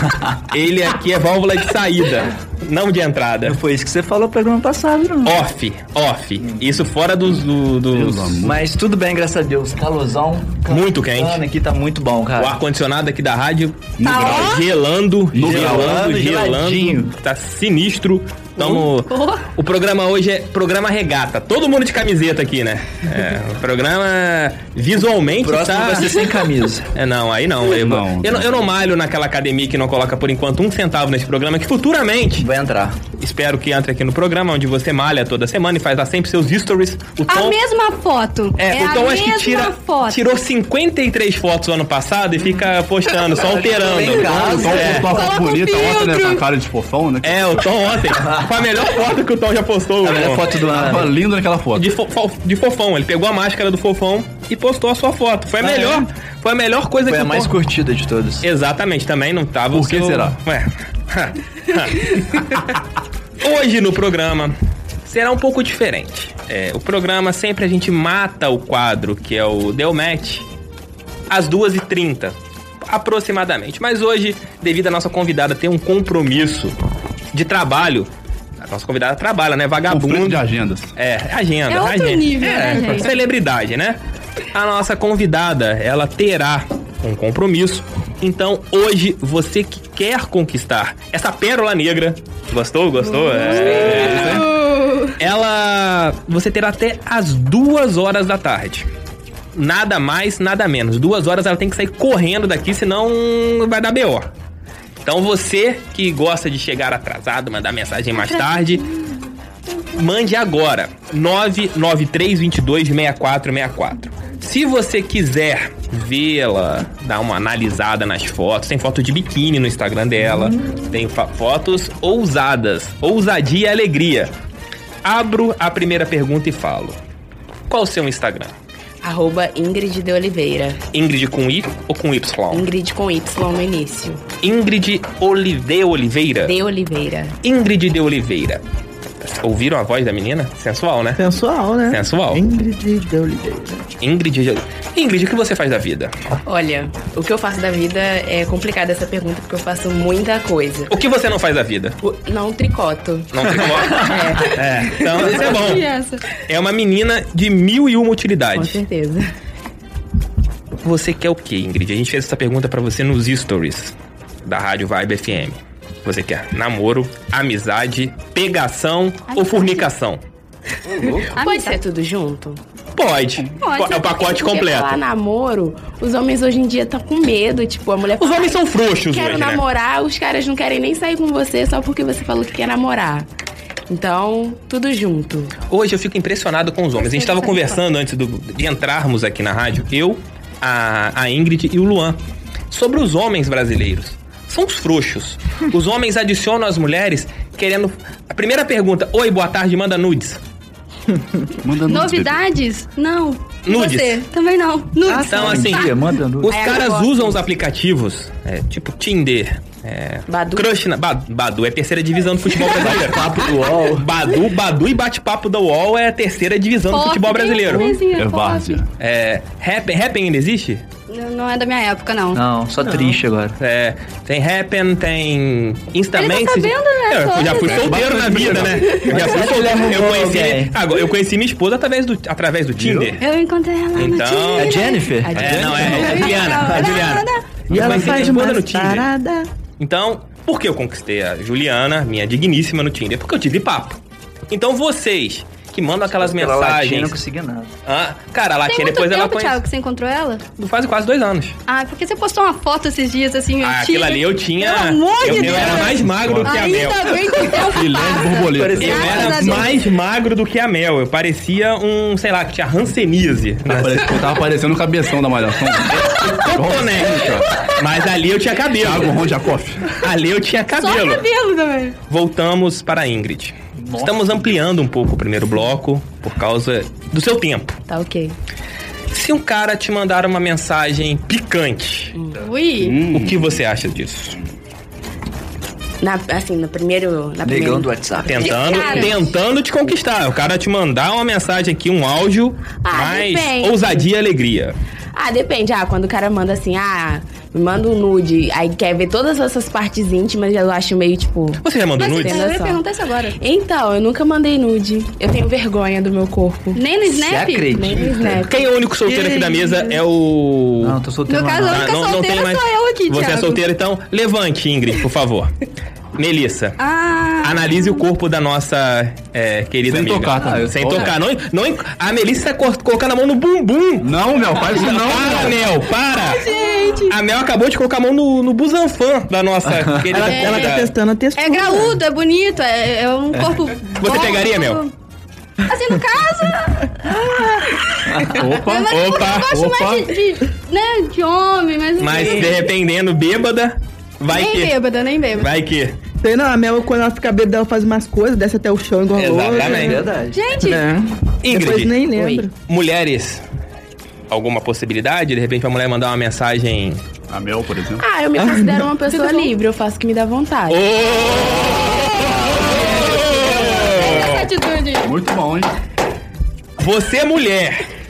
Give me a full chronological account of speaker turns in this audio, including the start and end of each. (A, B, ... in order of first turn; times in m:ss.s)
0:00.5-0:03.6 A
0:03.4-0:05.4 B
0:05.2-0:08.3 A
0:07.9-0:08.6 C
0:08.4-0:12.6 B
0:10.7-0:11.4 A
0:12.4-0:26.3 A
0:14.0-0:14.6 C
0:14.0-0:14.6 D
0:15.3-0:16.1 C
0:15.4-0:17.1 B
0:18.7-0:19.4 D
0:25.4-0:26.9 B
0:26.9-0:32.5 A
0:27.7-0:28.5 C
0:32.4-0:33.0 B
0:33.2-0:37.6 A
0:37.3-0:40.2 D
0:38.6-0:45.1 A
0:43.4-0:45.1 B
0:44.1-0:48.0 C
0:45.0-0:46.4 D
0:47.2-0:50.5 A
0:50.0-0:51.1 B
0:50.6-0:51.9 C
0:51.7-0:57.5 A
0:55.6-0:56.0 B
0:57.0-0:58.4 B
0:58.4-1:02.6 A
0:59.7-1:00.4 C
1:03.4-1:04.5 A
1:05.0-1:10.4 A
1:11.3-1:16.7 A
1:17.3-1:20.4 A
1:19.9-1:20.9 C
1:20.9-1:24.0 A
1:21.7-1:23.1 D
1:22.5-1:22.9 B
1:24.5-1:34.5 A
1:33.2-1:35.1 D
1:33.6-1:34.5 C
1:35.2-1:38.9 A
1:39.5-1:44.3 A
1:45.0-1:48.8 A
1:49.9-2:04.3 A
2:05.0-2:07.0 A
2:07.7-2:08.5 A
2:09.0-2:10.8 E
2:10.9-2:12.6 A
2:12.5-2:14.2 E
2:14.4-2:16.5 A
2:16.4-2:17.3 E
2:17.4-2:18.6 A
2:19.2-2:21.2 A
2:21.2-2:23.8 F
2:21.9-2:22.4 A
2:24.0-2:26.1 A
2:26.4-2:30.9 E
2:30.9-2:32.0 A
2:32.0-2:35.5 E
2:33.3-2:35.8 A
2:35.2-2:36.2 D
2:36.4-2:38.8 A
2:38.5-2:39.2 E
2:40.8-2:43.9 A
2:44.4-2:50.2 A
2:49.3-2:49.8 D
2:51.3-2:51.8 D
2:51.4-2:52.6 E
2:52.9-2:55.0 A
2:53.6-2:54.4 D
2:54.2-3:03.3 E
2:58.2-2:59.6 A
3:03.9-3:05.5 E
3:05.7-3:12.2 A
3:12.7-3:20.4 A
3:21.6-3:22.4 C
3:21.8-3:26.0 D
3:23.6-3:24.2 A
3:25.1-3:26.6 B
3:25.3-3:37.9 A
3:26.5-3:27.4 E
3:26.5-3:26.9 D
3:30.3-3:30.6 E
3:32.7-3:34.1 B
3:36.9-3:38.8 D
3:38.1-3:38.8 C
3:39.0-3:40.8 A
3:41.1-3:42.4 D
3:42.3-3:43.6 B
3:43.6-3:53.2 A
3:46.1-3:48.0 D
3:47.6-3:49.0 C
3:49.1-3:50.8 B
3:53.2-3:57.5 D
3:53.9-3:59.1 A
3:54.6-3:56.8 B
3:55.3-3:56.3 C
3:57.7-3:59.5 F
3:59.8-4:04.0 A
4:04.5-4:07.2 A
4:06.1-4:07.7 B
4:07.8-4:09.6 A
4:08.6-4:10.4 D
4:10.6-4:11.6 A
4:11.7-4:19.8 D
4:13.6-4:17.2 A
4:15.2-4:16.7 C
4:17.6-4:19.5 C
4:18.6-4:19.5 B
4:18.8-4:24.1 A
4:23.7-4:27.6 C
4:26.1-4:29.2 A
4:28.8-4:30.0 C
4:30.0-4:31.2 A
4:30.8-4:31.9 D
4:32.1-4:37.8 A
4:33.8-4:34.6 B
4:37.9-4:38.3 E
4:39.1-4:42.1 A
4:42.4-4:43.0 D
4:42.8-4:43.5 C
4:43.1-4:44.4 A
4:46.0-4:49.2 E
4:47.4-4:48.4 B
4:48.2-4:54.8 A
4:48.3-4:49.2 D
4:52.8-4:54.0 E
4:55.1-5:01.6 E
5:01.6-5:02.4 A
5:02.0-5:03.3 D
5:02.2-5:02.8 E
5:03.4-5:06.8 E
5:06.7-5:08.0 D
5:07.1-5:08.4 B
5:07.7-5:08.7 E
5:08.5-5:11.0 A
5:09.0-5:10.0 F
5:10.8-5:11.8 B
5:11.3-5:13.6 D
5:11.6-5:15.5 A
5:16.2-5:16.8 A
5:16.8-5:17.9 D
5:17.4-5:24.0 A
5:19.9-5:21.1 C
5:24.0-5:25.6 C
5:24.6-5:26.5 A
5:26.1-5:27.2 D
5:27.1-5:30.9 A
5:30.1-5:32.0 F
5:30.2-5:30.7 D
5:31.4-5:34.9 D
5:34.0-5:34.8 A
5:35.7-5:36.9 D
5:37.7-5:42.7 D
5:38.3-5:38.9 C
5:38.9-5:39.5 A
5:39.5-5:40.1 C
5:42.0-5:44.7 A
5:44.3-5:45.5 D
5:45.4-5:46.0 A
5:46.2-5:50.0 F
5:49.2-5:50.0 A
5:49.5-5:50.4 B
5:50.2-5:50.9 D
5:50.6-5:52.5 F
5:51.4-5:51.9 A
5:52.1-5:52.4 E
5:52.7-5:53.4 A
5:54.3-5:57.0 A
5:57.3-5:58.0 C
5:58.0-6:00.8 E
5:58.4-5:58.9 F
5:59.1-5:59.5 D
6:00.7-6:02.0 A
6:02.8-6:04.5 A
6:02.9-6:05.1 D
6:03.8-6:04.2 C
6:05.0-6:05.7 C
6:06.8-6:07.8 A